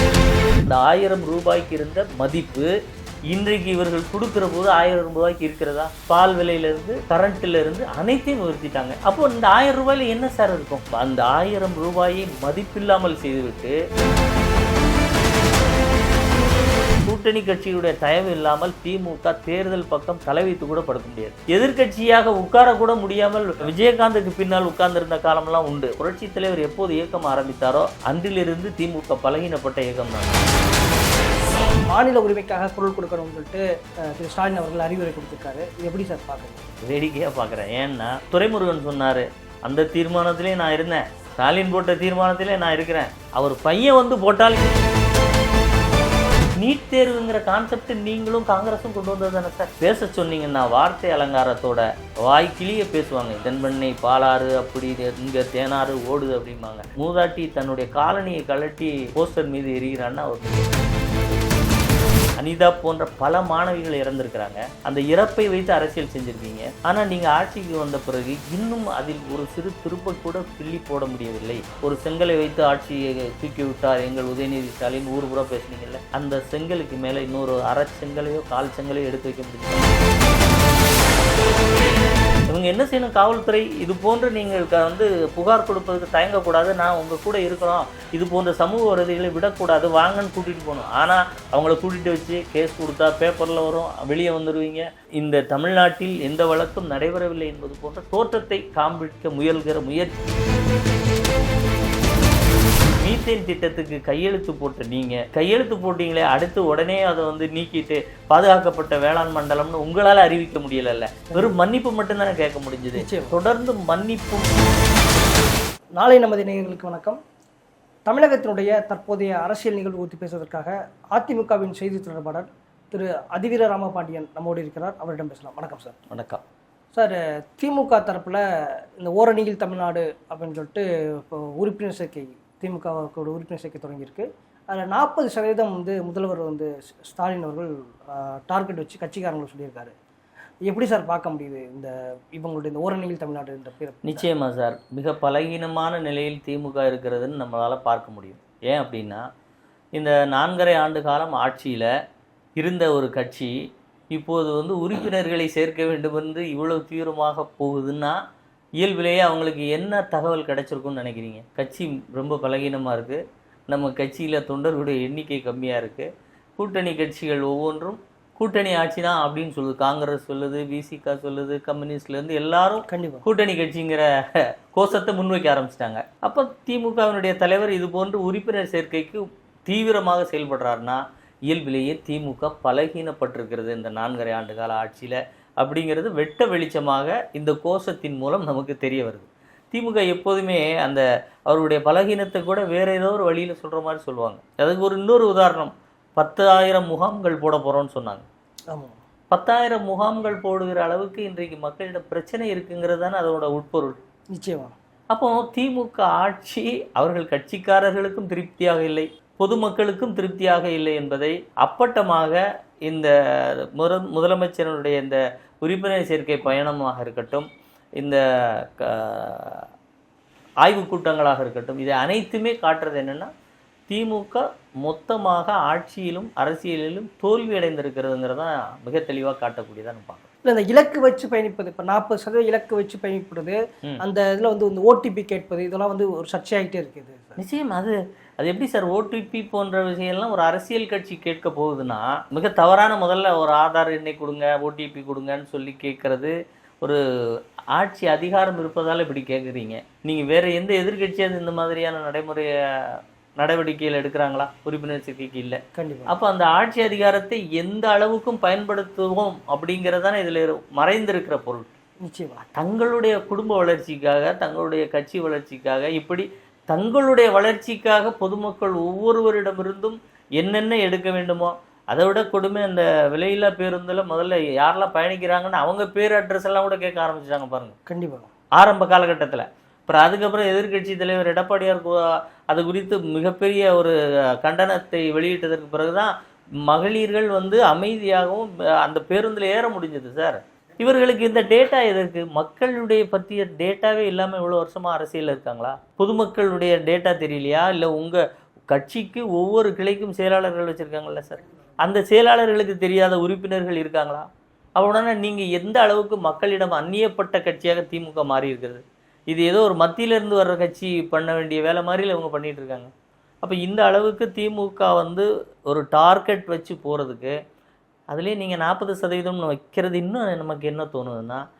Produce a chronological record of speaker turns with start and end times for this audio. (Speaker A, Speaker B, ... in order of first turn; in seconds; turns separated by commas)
Speaker A: 0.7-2.7, Speaker A: 3.3-13.8, Speaker A: 17.0-30.5, Speaker B: 31.9-36.7, Speaker A: 36.8-44.7, Speaker A: 46.6-60.7, Speaker A: 62.4-79.9, Speaker A: 82.5-100.3, Speaker A: 103.0-114.5, Speaker B: 111.3-111.5, Speaker B: 112.9-113.3, Speaker B: 116.0-117.2, Speaker B: 118.1-126.0, Speaker A: 126.1-126.4, Speaker B: 126.9-139.9, Speaker B: 140.6-144.2, Speaker A: 144.1-149.3, Speaker A: 149.9-151.9, Speaker A: 152.6-153.6, Speaker A: 154.1-158.2, Speaker A: 158.8-198.2, Speaker B: 172.9-173.2, Speaker B: 198.7-199.0, Speaker A: 199.3-204.0, Speaker B: 204.3-204.7, Speaker A: 205.1-217.5, Speaker A: 218.0-219.7, Speaker A: 220.6-223.3, Speaker A: 223.9-230.3, Speaker B: 230.4-237.4, Speaker A: 237.4-261.7, Speaker B: 255.7-256.1, Speaker B: 262.0-262.5, Speaker A: 262.5-277.8, Speaker B: 277.9-278.3, Speaker A: 278.6-286.1, Speaker A: 286.6-312.9, Speaker A: 313.4-317.3, Speaker A: 318.1-321.4